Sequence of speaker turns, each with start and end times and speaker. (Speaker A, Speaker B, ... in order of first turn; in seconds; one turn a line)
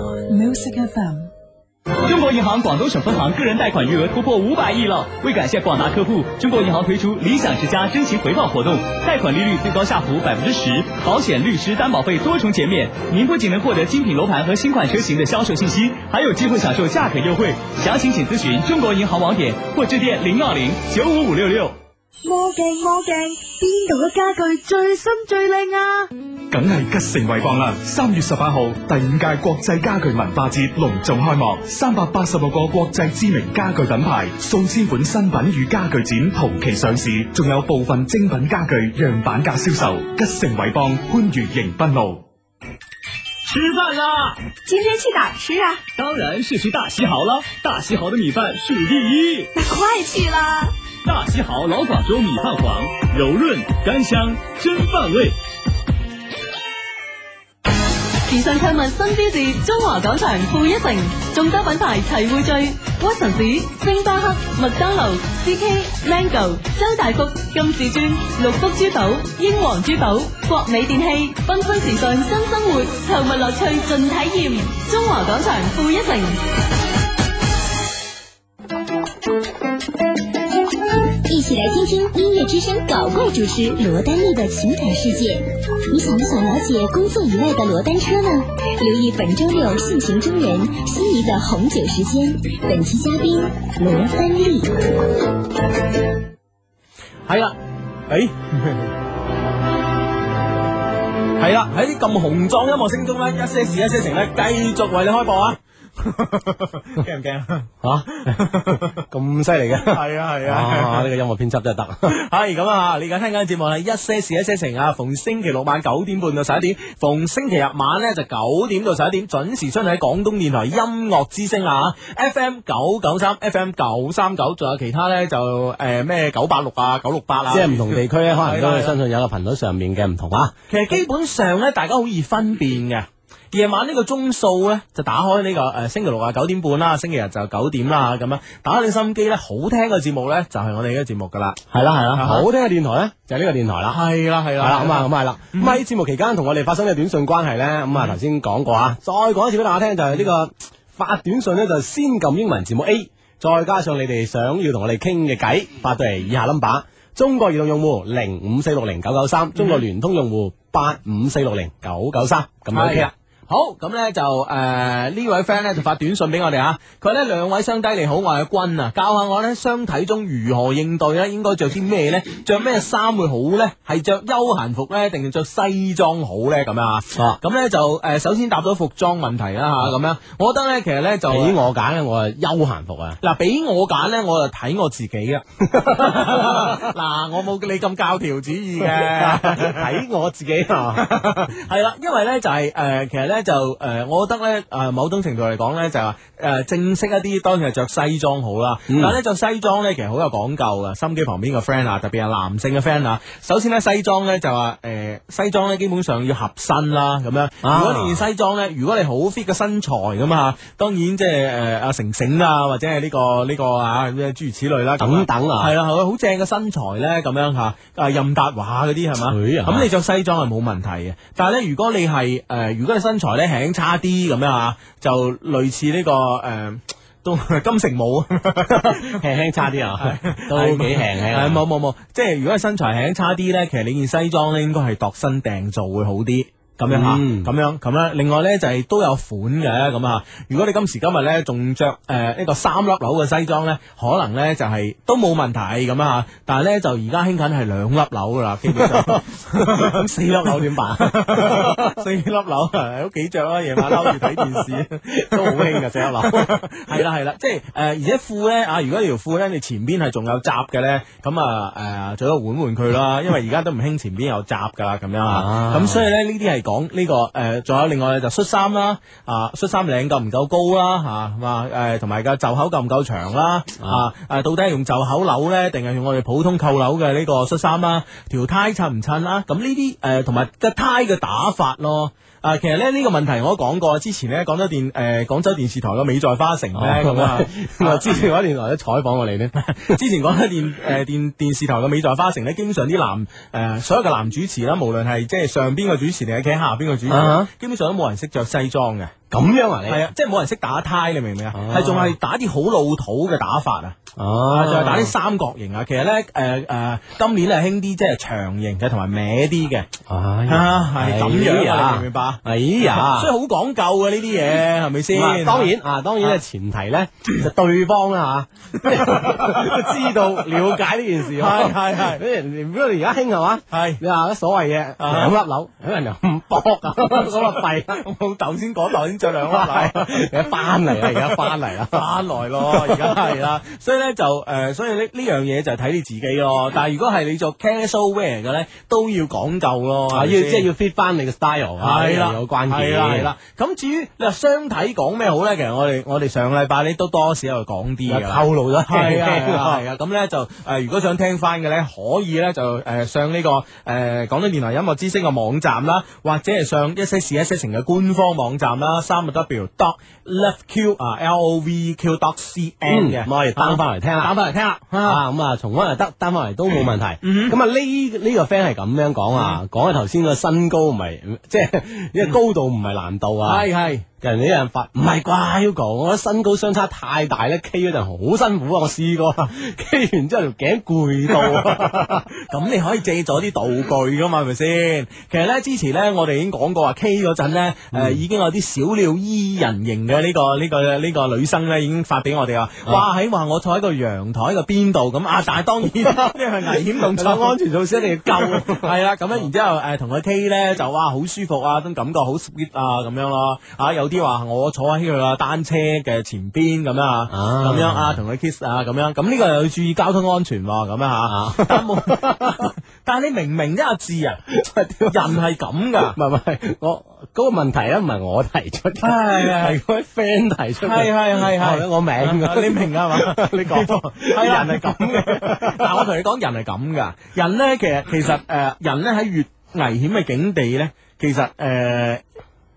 Speaker A: 0.3-1.3
Speaker B: 2.0-21.8
Speaker A: 22.2-26.1
Speaker C: 26.5-42.2
Speaker B: 43.5-44.4
Speaker D: 44.6-45.8
Speaker B: 46.0-49.5
Speaker D: 49.5-50.7
Speaker B: 51.0-55.4
Speaker E: 58.2-76.4
Speaker D: 81.2-94.8
Speaker F: 97.3-97.6
Speaker F: 98.1-98.9
Speaker F: 101.4-107.7
Speaker G: 107.8-112.1
Speaker F: 108.2-108.9
Speaker F: 109.8-111.1
Speaker F: 112.0-128.9
Speaker G: 127.5-130.5
Speaker F: 130.7-141.6
Speaker G: 141.7-144.0
Speaker F: 142.2-142.5
Speaker F: 143.9-145.8
Speaker G: 144.6-163.1
Speaker F: 159.6-159.8
Speaker F: 162.7-181.6
Speaker G: 177.1-177.4
Speaker G: 181.3-183.2
Speaker F: 183.2-190.0
Speaker G: 185.8-186.7
Speaker G: 188.9-191.1
Speaker F: 190.9-229.2
Speaker G: 198.9-199.1
Speaker G: 207.6-208.2
Speaker G: 215.0-215.7
Speaker G: 219.3-219.9
Speaker G: 228.7-231.6
Speaker F: 229.8-250.0
Speaker G: 236.9-237.5
Speaker G: 248.7-252.0
Speaker F: 251.0-288.3
Speaker G: 253.8-256.6
Speaker G: 265.3-266.1
Speaker G: 286.7-289.5
Speaker F: 289.5-299.1
Speaker G: 297.1-297.5
Speaker G: 299.3-300.1
Speaker F: 299.9-303.9
Speaker G: 301.5-302.1
Speaker G: 304.1-305.1
Speaker F: 304.5-309.9
Speaker G: 310.1-313.3
Speaker F: 310.5-316.4
Speaker G: 315.1-328.0
Speaker F: 318.8-320.7
Speaker F: 321.3-322.2
Speaker F: 323.7-324.0
Speaker F: 325.0-325.3
Speaker F: 327.0-340.7
Speaker G: 329.5-332.1
Speaker G: 332.6-333.3
Speaker G: 340.1-343.3
Speaker F: 341.8-365.2
Speaker G: 348.1-349.8
Speaker G: 362.9-364.3
Speaker G: 365.0-373.7
Speaker F: 367.2-367.6
Speaker F: 369.3-369.6
Speaker F: 373.4-374.1
Speaker G: 374.2-382.2
Speaker F: 381.3-397.6
Speaker G: 387.9-388.2
Speaker G: 396.1-396.3
Speaker G: 396.9-398.9
Speaker F: 398.2-414.4
Speaker G: 407.3-408.2
Speaker G: 411.3-412.6
Speaker G: 414.5-415.3
Speaker F: 415.1-416.2
Speaker G: 416.1-426.0
Speaker F: 419.0-419.8
Speaker F: 420.8-432.2